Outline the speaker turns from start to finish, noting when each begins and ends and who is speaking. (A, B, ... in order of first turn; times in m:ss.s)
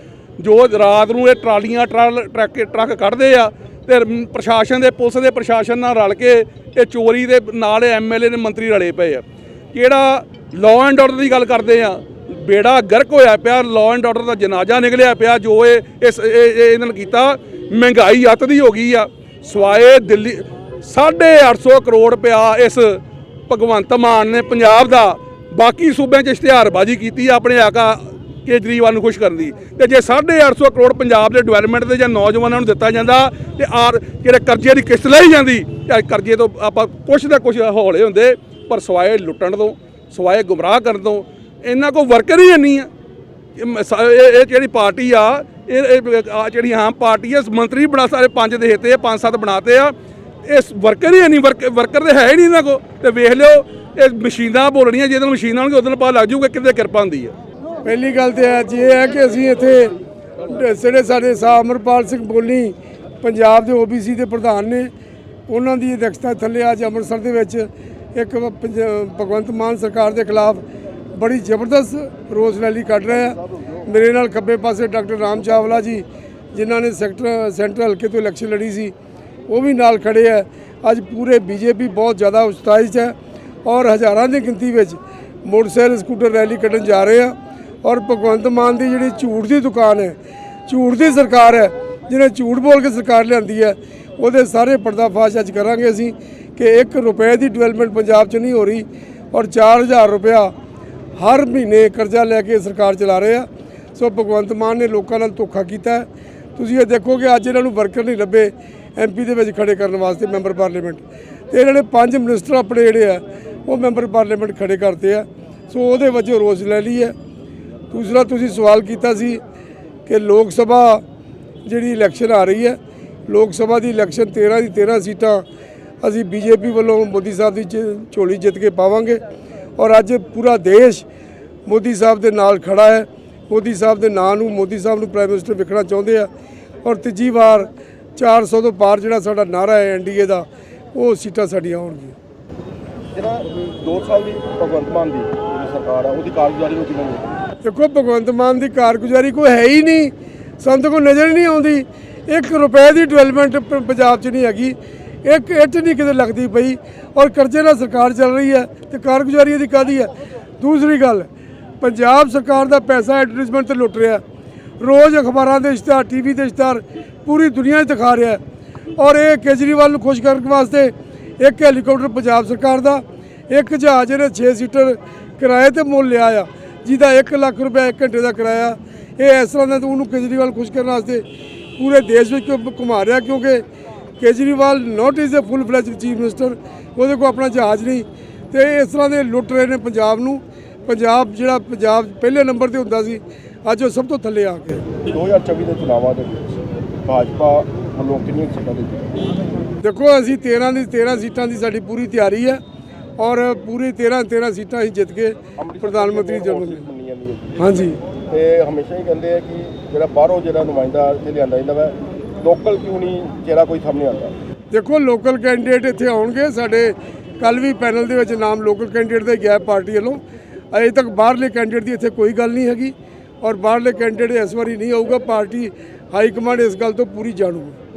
0:00.4-0:42.9 A
0:43.6-0:49.9 A
0:50.4-0:57.3 A
0:57.8-1:04.9 B
1:05.5-1:10.6 B
1:11.2-1:18.9 B
1:13.3-1:13.8 C
1:19.5-1:30.2 B
1:30.7-1:40.5 B
1:41.2-1:57.1 B
1:57.9-1:59.4 B
2:00.1-2:01.0 B
2:01.7-2:05.4 B
2:06.0-2:09.2 B
2:09.8-2:11.1 B
2:11.7-2:16.3 B
2:16.8-2:22.2 B
2:23.1-2:27.3 C
2:27.6-2:41.3 B
2:41.8-2:44.2 B
2:44.8-2:48.4 B
2:49.0-3:01.2 B
3:01.8-3:03.6 B
3:04.2-3:14.9 B
3:15.1-3:19.2 C
3:19.8-3:22.6 B
3:23.2-3:26.8 B
3:25.6-3:27.6 C
3:27.6-3:28.0 B
3:28.3-3:34.4 C
3:34.7-3:40.2 B
3:40.7-3:47.8 B